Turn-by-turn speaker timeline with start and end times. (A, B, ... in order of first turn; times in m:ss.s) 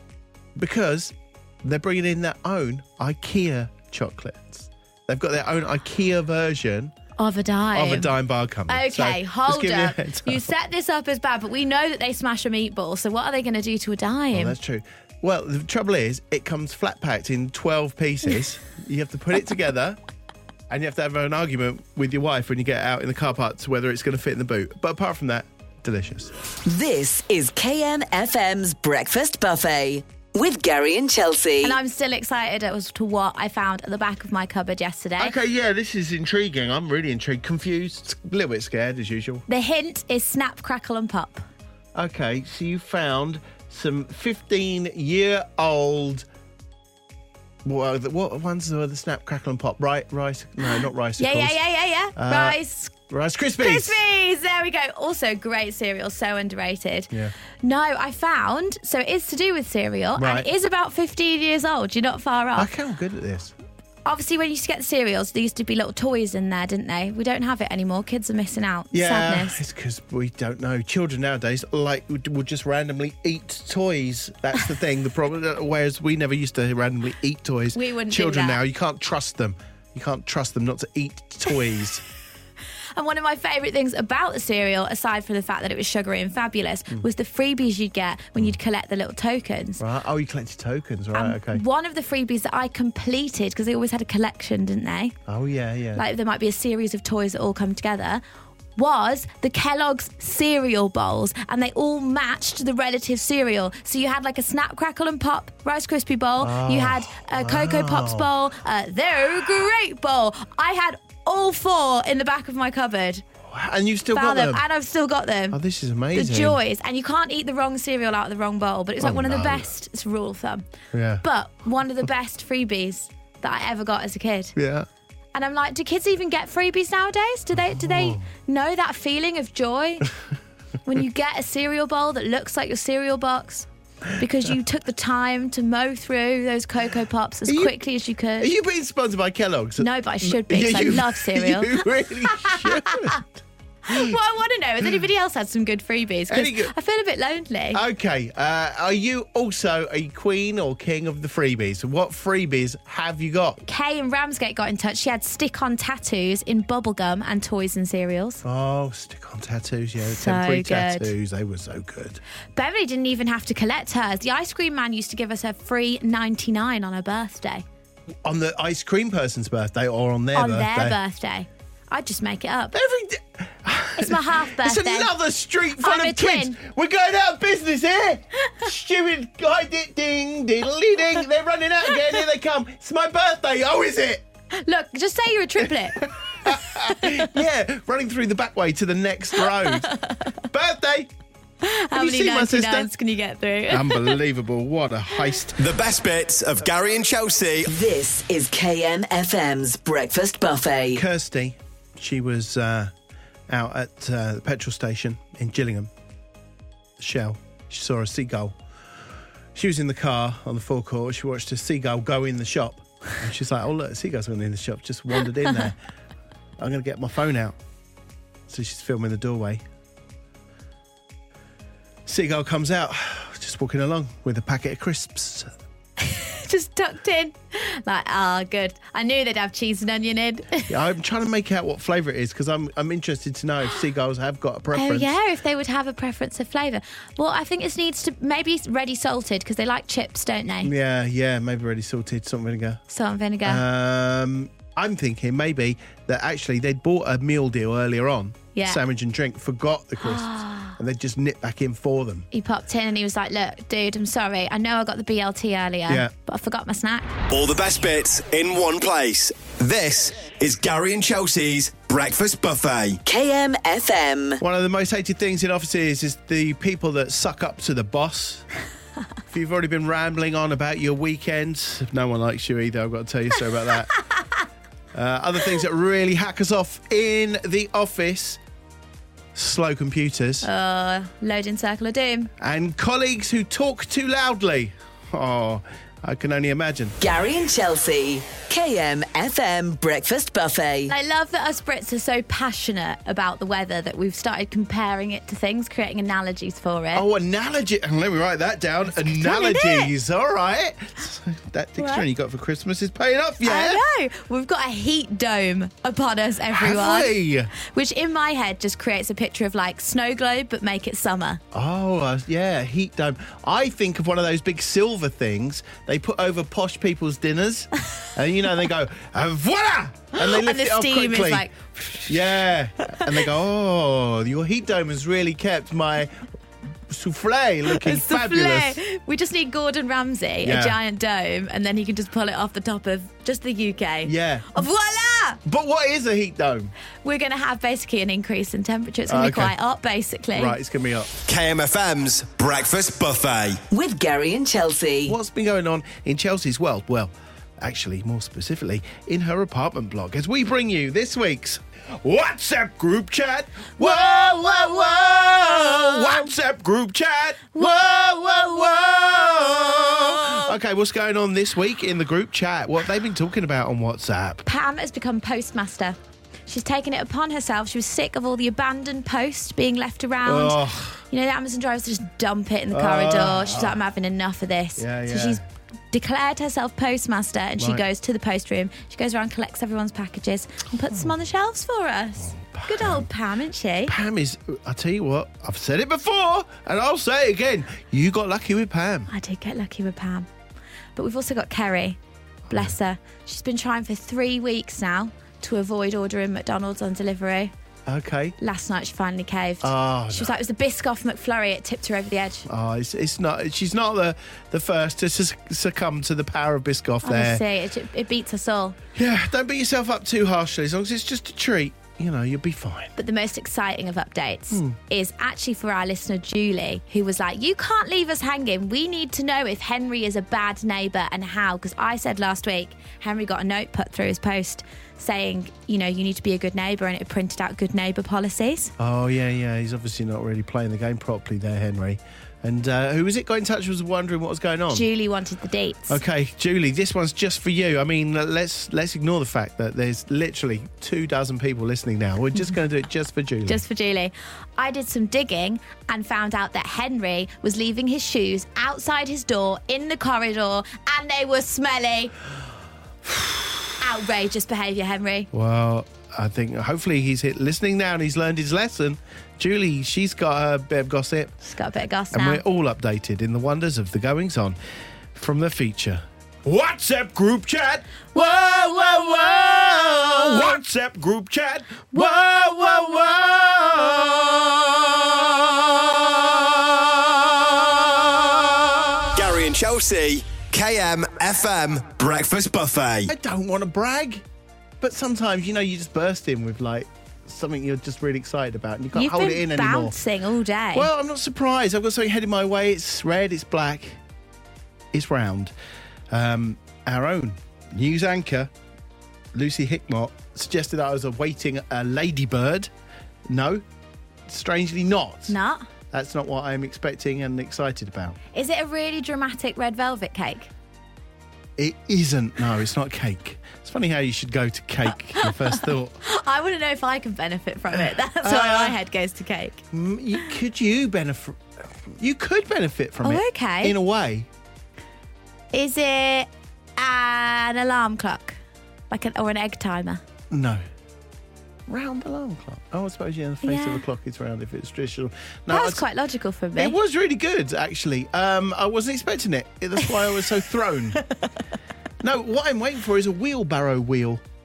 0:00.6-0:06.9 A
0:07.2-0:08.1 B
0:07.7-0:10.4 A
0:08.7-0:14.6 B
0:14.3-0:20.0 A
0:20.7-0:26.3 A
0:26.6-0:31.8 C
0:31.6-0:35.4 B
0:35.2-0:39.4 A
0:39.5-0:41.4 B
0:42.0-0:46.3 A
0:47.6-0:51.6 A
0:50.7-0:52.9 B
0:52.2-0:54.0 A
0:53.6-0:57.1 B
0:57.6-1:02.7 B
1:00.2-1:00.5 A
1:02.6-1:03.5 A
1:04.0-1:09.6 B
1:08.9-1:22.0 A
1:17.7-1:18.6 B
1:23.0-1:29.8 B
1:29.8-1:31.6 A
1:31.1-1:35.2 B
1:35.3-1:36.0 A
1:36.0-1:38.2 B
1:38.8-1:53.2 B
1:46.4-1:48.3 A
1:53.4-1:54.6 A
1:54.1-1:55.6 B
1:55.5-1:56.6 A
1:56.1-2:00.6 B
1:59.0-1:59.7 A
2:00.9-2:01.2 A
2:01.2-2:04.5 B
2:04.6-2:04.9 A
2:05.3-2:10.1 B
2:07.5-2:08.3 A
2:10.8-2:18.5 B
2:17.5-2:17.8 A
2:18.4-2:24.1 A
2:19.8-2:23.2 B
2:23.8-2:27.8 B
2:26.3-2:26.7 A
2:27.7-2:33.6 A
2:33.6-2:38.4 B
2:38.4-2:42.2 A
2:40.0-2:41.1 B
2:42.5-2:47.6 B
2:48.2-2:51.0 A
2:50.3-2:52.7 B
2:52.7-3:04.2 A
2:54.0-2:55.1 B
2:55.8-2:56.6 B
3:04.5-3:07.3 B
3:06.0-3:11.1 A
3:09.5-3:10.3 B
3:11.6-3:14.2 B
3:11.9-3:12.9 A
3:13.7-3:15.6 A
3:15.6-3:17.7 D
3:17.6-3:21.0 C
3:20.9-3:22.9 A
3:23.5-3:25.9 A
3:27.0-3:28.6 A
3:29.5-3:35.8 A
3:36.6-3:37.6 A
3:38.5-3:39.6 A
3:42.0-3:45.5 A
3:46.0-3:50.7 B
3:50.7-3:55.1 A
3:54.7-4:00.7 B
4:00.6-4:02.8 A
4:02.9-4:03.6 B
4:03.4-4:12.3 A
4:08.5-4:08.8 B
4:10.0-4:10.7 B
4:12.3-4:17.1 B
4:17.3-4:23.0 D
4:23.0-4:24.4 C
4:24.4-4:28.4 A
4:29.3-4:33.9 A
4:34.9-4:38.4 A
4:39.3-4:40.5 A
4:40.4-4:42.3 B
4:42.4-4:47.0 A
4:47.0-4:50.9 C
4:50.9-4:57.0 B
4:56.9-5:03.8 A
4:59.0-4:59.9 B
5:01.8-5:02.0 B
5:03.4-5:11.4 B
5:06.5-5:07.5 A
5:11.5-5:21.4 A
5:20.2-5:23.1 B
5:22.0-5:26.2 A
5:26.9-5:28.8 A
5:27.7-5:35.4 B
5:30.4-5:30.8 A
5:34.0-5:34.6 A
5:35.4-5:36.7 A
5:37.0-5:40.6 B
5:39.1-5:39.5 A
5:40.3-5:41.1 A
5:41.3-5:43.6 D
5:43.7-5:45.2 C
5:45.0-6:04.4 A
5:53.8-5:56.2 B
5:57.6-6:00.5 B
6:04.4-6:15.4 B
6:10.2-6:11.0 A
6:12.7-6:13.8 A
6:14.8-6:15.4 A
6:15.9-6:23.9 B
6:22.2-6:23.1 A
6:23.8-6:29.1 A
6:29.1-6:30.3 B
6:31.0-6:32.0 B
6:32.5-6:37.5 B
6:37.9-6:38.3 A
6:38.4-6:42.4 B
6:39.6-6:40.3 A
6:42.4-6:47.4 A
6:47.0-6:48.8 B
6:49.0-6:52.9 A
6:53.0-7:08.7 B
7:08.8-7:14.8 A
7:14.7-7:16.0 B
7:15.9-7:23.6 A
7:23.5-7:32.1 B
7:33.8-7:35.3 B
7:35.3-7:41.4 A
7:41.5-7:42.4 B
7:42.1-7:44.6 A
7:45.1-7:59.2 A
7:48.1-7:50.6 B
7:51.9-7:53.2 B
7:59.1-8:03.1 D
8:03.1-8:04.2 A
8:04.8-8:09.9 A
8:08.9-8:10.9 B
8:10.7-8:14.0 A
8:14.9-8:15.5 A
8:16.1-8:18.5 A
8:19.3-8:22.7 A
8:23.3-8:23.6 A
8:24.3-8:25.3 A
8:25.3-8:25.6 B
8:25.9-8:28.2 A
8:28.3-8:30.5 B
8:31.6-8:35.9 A
8:35.2-8:39.6 B
8:38.2-8:38.8 A
8:39.7-8:44.3 A
8:43.0-8:43.7 B
8:45.5-8:48.4 B
8:48.9-8:50.0 B
8:50.3-8:50.6 A
8:51.7-8:55.8 A
8:53.4-8:53.8 B
8:55.5-8:56.8 B
8:56.6-9:01.0 A
9:02.0-9:04.2 A